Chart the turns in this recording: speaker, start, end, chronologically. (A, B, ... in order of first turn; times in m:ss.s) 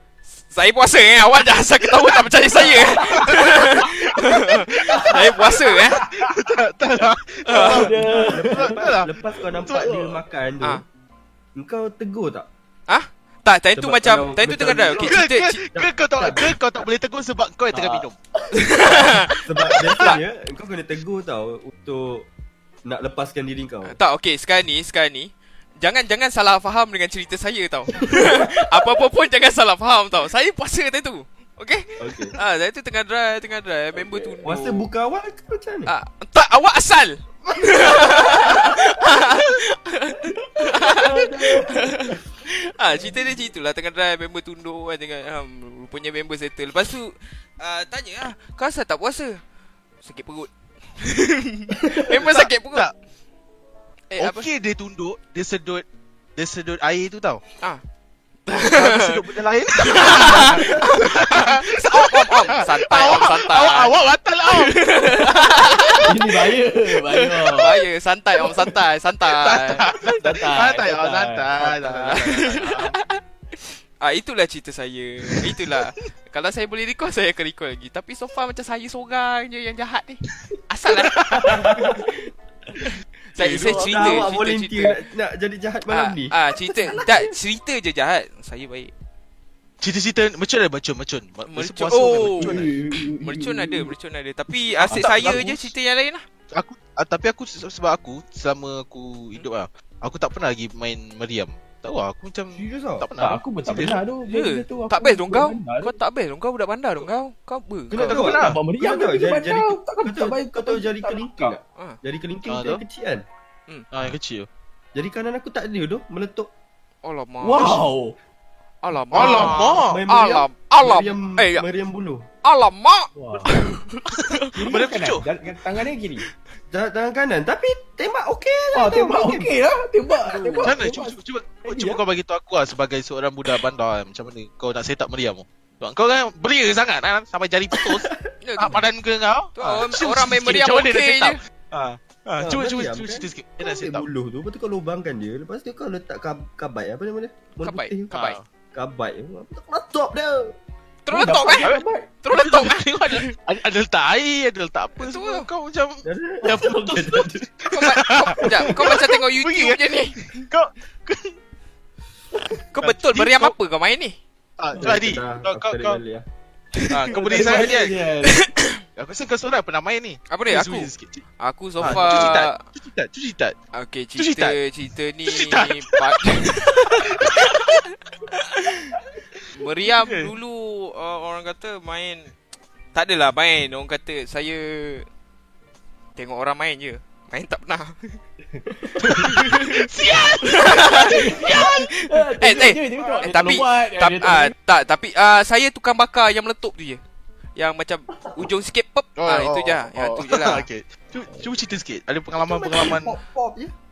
0:00.3-0:06.0 A
0:03.2-0:03.9 B
0:04.9-0:05.2 C
0:05.9-0:10.1 B
0:07.4-0:07.9 A
0:07.5-0:08.9 C
0:08.1-0:10.8 D
0:09.7-0:10.1 C
0:11.6-0:12.5 D
0:12.9-0:15.6 A
0:13.7-0:15.2 D
0:15.0-0:18.1 B
0:15.7-0:16.4 D
0:17.7-0:18.0 C
0:18.5-0:20.2 A
0:19.4-0:22.3 D
0:22.8-0:24.0 D
0:23.8-0:34.9 A
0:28.0-0:28.4 D
0:32.0-0:32.4 D
0:34.0-0:35.9 D
0:35.9-0:49.4 A
0:40.7-0:42.0 D
0:50.0-0:52.9 A
0:51.9-0:52.9 B
0:54.1-0:54.4 A
0:54.2-0:55.8 B
0:56.4-0:57.4 B
0:58.5-0:59.2 A
0:58.6-1:04.8 B
0:59.8-1:03.9 A
1:04.5-1:06.3 A
1:06.0-1:07.8 C
1:07.1-1:09.9 A
1:09.3-1:13.0 B
1:10.1-1:11.5 C
1:11.6-1:13.2 A
1:14.0-1:21.9 A
1:21.2-1:21.6 B
1:21.4-1:22.1 D
1:23.3-1:25.0 A
1:23.4-1:27.3 D
1:23.6-1:24.2 C
1:25.9-1:28.9 A
1:29.8-1:32.7 B
1:31.5-1:32.7 A
1:32.3-1:33.9 C
1:33.2-1:36.2 A
1:34.8-1:35.5 C
1:34.9-1:35.5 B
1:36.5-1:44.0 B
1:42.5-1:43.1 D
1:43.2-1:46.0 C
1:44.2-1:48.2 A
1:47.9-1:53.2 D
1:48.0-1:48.6 B
1:48.2-1:51.6 C
1:52.5-1:52.8 B
1:53.9-1:54.5 B
1:54.9-1:56.5 D
1:57.0-1:57.8 A
1:57.4-1:58.2 C
1:58.8-2:01.6 A
1:59.1-2:00.0 B
1:59.2-2:02.3 D
2:02.4-2:04.6 A
2:03.1-2:03.6 C
2:04.5-2:06.2 C
2:04.6-2:05.2 B
2:06.7-2:09.5 D
2:08.7-2:12.0 C
2:10.3-2:10.6 A
2:10.6-2:24.0 B
2:18.4-2:18.8 A
2:19.6-2:21.4 A
2:22.4-2:28.1 D
2:27.6-2:28.4 A
2:28.1-2:28.4 B
2:28.7-2:30.6 D
2:31.0-2:31.7 A
2:31.1-2:31.9 C
2:31.2-2:32.0 D
2:31.6-2:39.8 B
2:32.2-2:33.3 A
2:35.0-2:35.5 A
2:36.0-2:37.4 D
2:37.7-2:40.4 A
2:40.3-2:41.4 B
2:42.7-2:44.2 A
2:42.8-2:43.5 B
2:44.6-2:46.0 B
2:44.8-2:46.2 D
2:46.9-2:48.0 B
2:47.1-2:48.4 C
2:48.2-2:48.8 A
2:49.0-2:51.2 B
2:50.3-2:52.6 A
2:51.8-2:53.6 B
2:51.8-2:52.3 C
2:53.7-2:57.7 A
2:54.2-2:54.6 B
2:55.3-2:56.2 B
2:57.0-2:57.8 B
2:58.5-2:59.0 A
2:59.5-3:02.3 A
2:59.8-3:00.3 B
3:02.9-3:05.0 A
3:06.2-3:08.2 A
3:08.9-3:09.2 C
3:09.0-3:09.7 A
3:09.5-3:11.0 B
3:10.4-3:17.0 A
3:10.8-3:14.5 C
3:13.0-3:13.3 B
3:17.6-3:20.6 A
3:19.2-3:23.2 B
3:22.4-3:23.7 D